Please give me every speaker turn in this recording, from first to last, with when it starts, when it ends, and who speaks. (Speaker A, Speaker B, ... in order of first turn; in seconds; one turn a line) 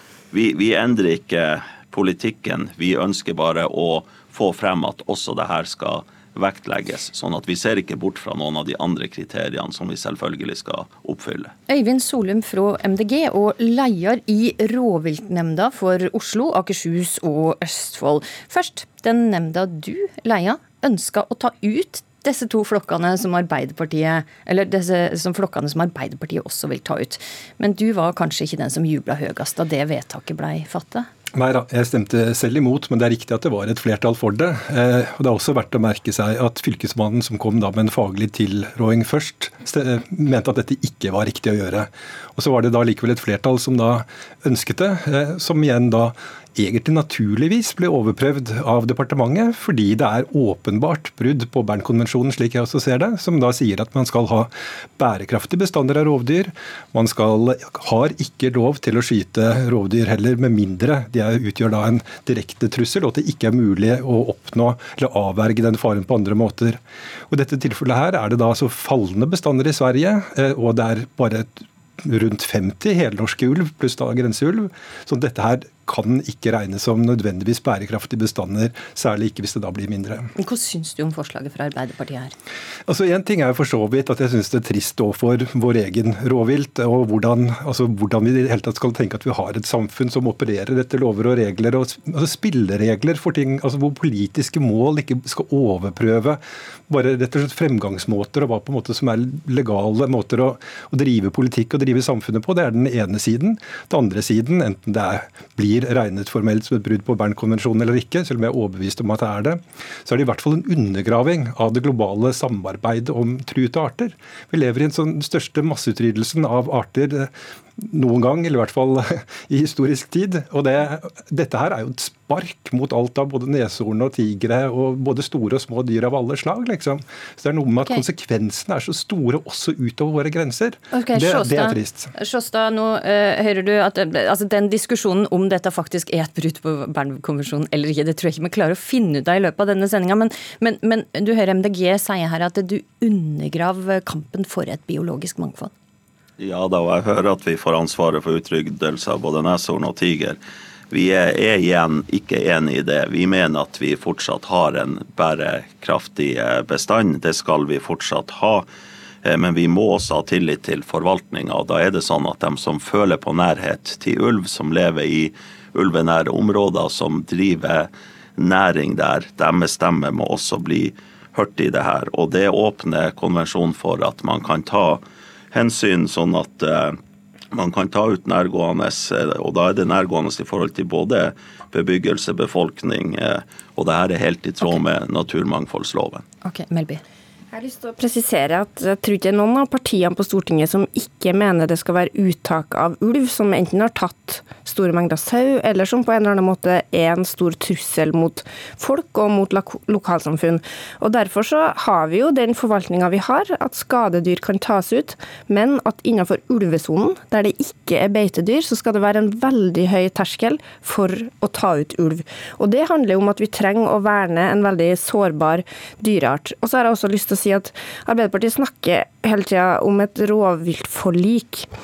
Speaker A: 0.3-11.5
Speaker B: 11.7-31.1
Speaker C: 31.4-80.3
Speaker B: 80.4-82.3
Speaker C: 82.9-132.1
Speaker B: 130.9-145.7
Speaker A: 146.4-150.4
Speaker A: 150.9-158.7
Speaker A: 159.2-175.0
Speaker A: 175.5-177.0
Speaker A: 177.5-186.2
Speaker B: 186.4-187.0
Speaker D: 187.5-221.7